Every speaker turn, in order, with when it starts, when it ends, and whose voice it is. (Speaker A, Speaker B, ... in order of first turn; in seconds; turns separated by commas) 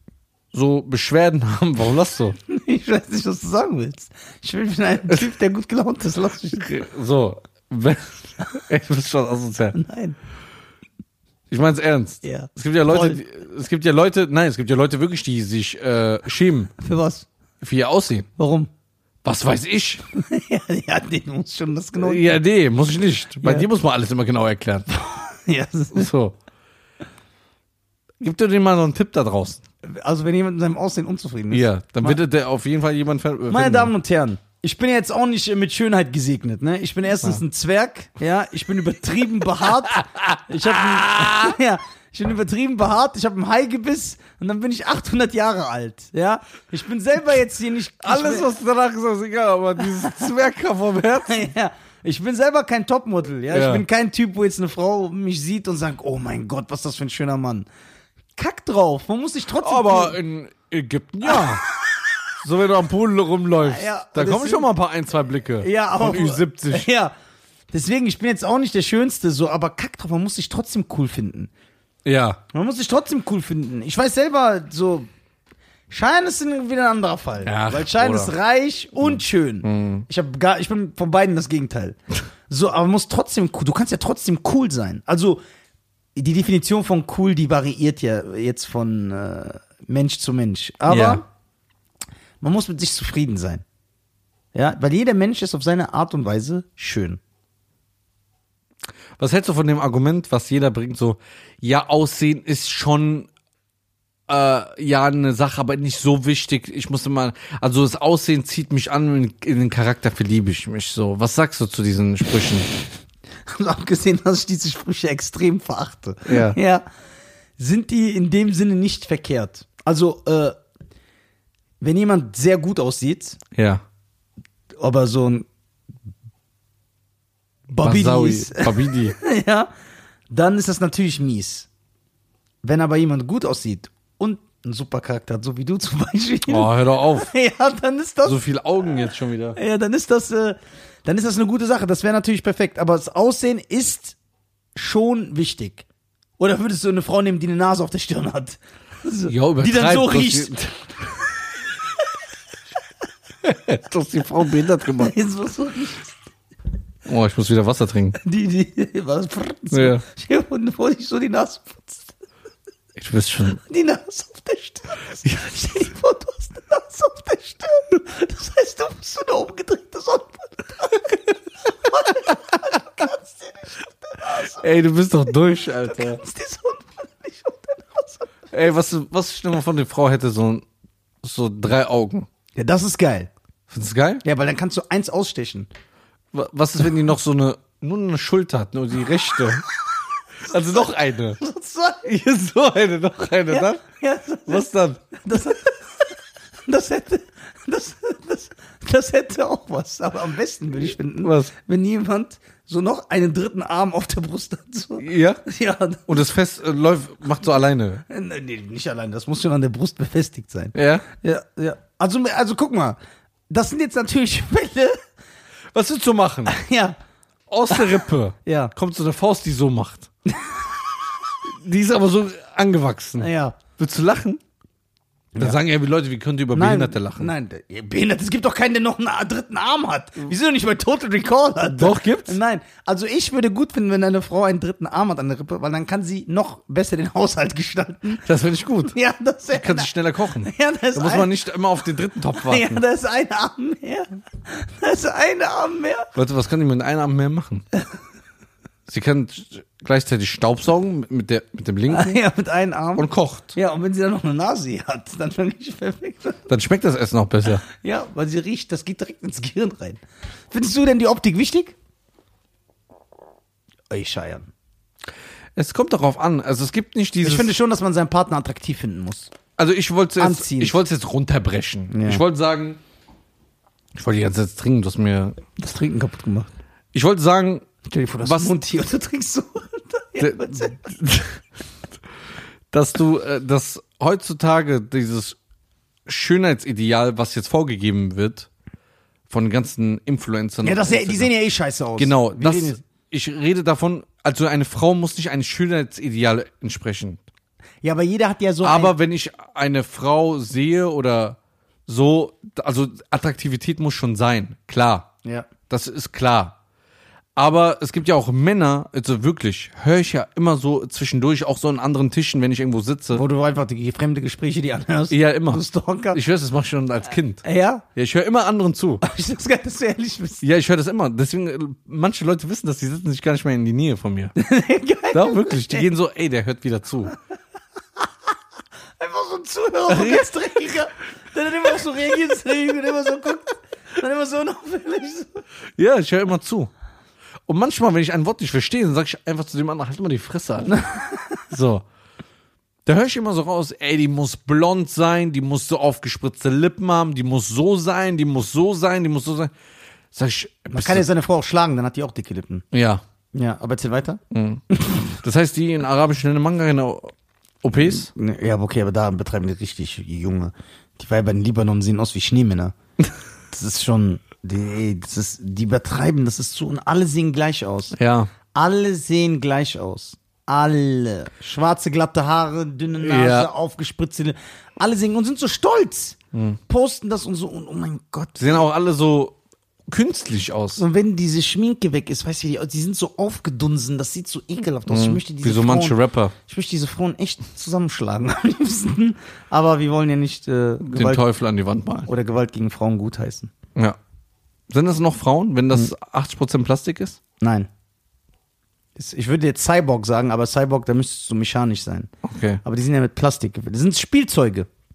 Speaker A: 0.5-2.4, Speaker B: 2.5-6.7, Speaker A: 6.5-9.8, Speaker B: 9.7-10.2, Speaker A: 11.5-16.7, Speaker B: 12.2-13.2, Speaker B: 16.8-17.3, Speaker A: 17.6-18.3, Speaker B: 18.4-18.7, Speaker A: 19.2-20.0, Speaker B: 20.1-22.4, Speaker A: 22.0-24.9, Speaker B: 23.4-23.7, Speaker B: 24.9-26.1, Speaker A: 25.9-26.4, Speaker A: 28.2-29.6, Speaker B: 29.8-32.2, Speaker A: 31.5-33.9, Speaker B: 33.5-48.5, Speaker A: 39.9-41.5, Speaker A: 48.0-51.5, Speaker B: 51.2-57.7, Speaker A: 53.5-53.8, Speaker B: 58.4-60.2, Speaker A: 59.6-61.6, Speaker B: 61.2-62.0, Speaker A: 62.4-66.9, Speaker B: 63.6-64.7, Speaker B: 65.6-67.1, Speaker B: 67.7-71.5, Speaker A: 72.0-72.4, Speaker B: 72.5-75.1, Speaker B: 75.9-82.0, Speaker A: 77.4-78.3, Speaker A: 79.0-80.0, Speaker B: 82.5-85.4, Speaker B: 86.1-91.2, Speaker A: 90.9-91.2, Speaker B: 92.4-93.6, Speaker B: 94.5-97.2, Speaker A: 99.2-103.3, Speaker A: 104.3-112.7, Speaker B: 113.5-116.8, Speaker A: 116.2-116.6, Speaker B: 117.6-120.5, Speaker B: 121.8-123.4, Speaker A: 123.5-123.8, Speaker B: 124.8-125.5, Speaker B: 127.7-129.7, Speaker A: 127.8-129.2, Speaker B: 130.3-131.7, Speaker B: 132.6-138.4, Speaker A: 136.4-137.3, Speaker A: 138.2-139.6, Speaker B: 139.6-144.2, Speaker B: 144.7-145.8, Speaker B: 146.4-150.6, Speaker A: 149.3-151.1, Speaker A: 153.4-155.2, Speaker B: 154.9-156.1, Speaker A: 157.1-158.2, Speaker B: 158.2-162.1, Speaker A: 159.7-160.0, Speaker A: 163.0-163.6, Speaker B: 163.6-174.7, Speaker A: 174.4-176.2, Speaker B: 175.8-178.2, Speaker A: 178.5-180.6, Speaker A: 181.2-182.3, Speaker B: 182.5-183.3, Speaker A: 183.7-184.2, Speaker B: 184.2-185.7, Speaker A: 186.3-189.7, Speaker A: 190.4-191.4, Speaker B: 190.5-192.1, Speaker A: 192.0-193.8, Speaker B: 193.5-196.1, Speaker A: 194.5-195.1, Speaker B: 196.7-206.1, Speaker A: 201.2-201.5, Speaker A: 205.0-205.4, Speaker A: 206.1-208.0, Speaker B: 208.1-213.0, Speaker A: 210.7-211.1, Speaker B: 213.5-215.0, Speaker A: 215.7-216.5, Speaker B: 216.5-217.0, Speaker A: 217.5-220.1, Speaker B: 217.7-218.7, Speaker B: 220.3-220.8, Speaker A: 221.4-224.4, Speaker B: 223.2-223.6, Speaker A: 225.4-227.3, Speaker B: 226.5-238.2, Speaker A: 231.7-232.4, Speaker A: 238.2-239.0, Speaker B: 238.9-241.3, Speaker A: 239.5-242.8, Speaker B: 242.4-246.1, Speaker A: 246.1-247.6, Speaker A: 248.9-252.2, Speaker B: 251.9-256.4, Speaker A: 252.9-253.6, Speaker A: 256.5-257.6, Speaker B: 257.6-261.7, Speaker B: 263.9-264.5, Speaker A: 265.6-267.5, Speaker B: 267.2-269.3, Speaker A: 269.6-272.8, Speaker B: 270.2-270.8, Speaker B: 271.9-272.2, Speaker A: 273.9-275.4, Speaker B: 275.6-276.5, Speaker A: 276.9-277.7, Speaker B: 277.8-280.8, Speaker A: 278.2-278.5, Speaker A: 280.2-281.4, Speaker A: 282.7-285.4, Speaker A: 286.1-288.5, Speaker A: 289.3-291.3, Speaker B: 290.6-292.8, Speaker A: 292.0-297.2, Speaker B: 297.8-298.9, Speaker A: 298.6-305.1, Speaker B: 305.2-305.5, Speaker A: 305.7-306.6, Speaker A: 307.4-313.2, Speaker B: 313.1-316.2, Speaker A: 315.1-315.6, Speaker A: 316.1-317.4, Speaker B: 317.4-317.8, Speaker A: 317.9-319.0, Speaker B: 319.0-320.4, Speaker A: 320.4-324.3, Speaker B: 324.4-325.9, Speaker A: 325.1-327.1, Speaker B: 329.0-335.4, Speaker A: 329.9-330.5, Speaker A: 335.8-336.7, Speaker A: 337.5-340.9, Speaker B: 340.7-341.4, Speaker A: 341.5-341.8, Speaker A: 342.9-349.5, Speaker A: 350.1-351.0, Speaker B: 350.7-352.6, Speaker A: 352.7-353.0, Speaker B: 353.3-354.2, Speaker A: 354.3-358.1, Speaker B: 354.7-355.0, Speaker B: 357.8-362.7, Speaker B: 363.5-367.9, Speaker A: 368.0-368.3, Speaker B: 368.5-376.2, Speaker A: 373.0-373.5, Speaker A: 376.3-376.6, Speaker B: 376.7-378.6, Speaker A: 378.4-379.4, Speaker A: 379.9-380.8, Speaker B: 380.8-391.2, Speaker A: 384.9-386.3, Speaker A: 390.9-392.1, Speaker B: 392.1-393.5, Speaker A: 394.7-397.2, Speaker B: 397.4-397.7, Speaker B: 398.9-402.1, Speaker A: 402.2-402.6, Speaker B: 402.6-404.7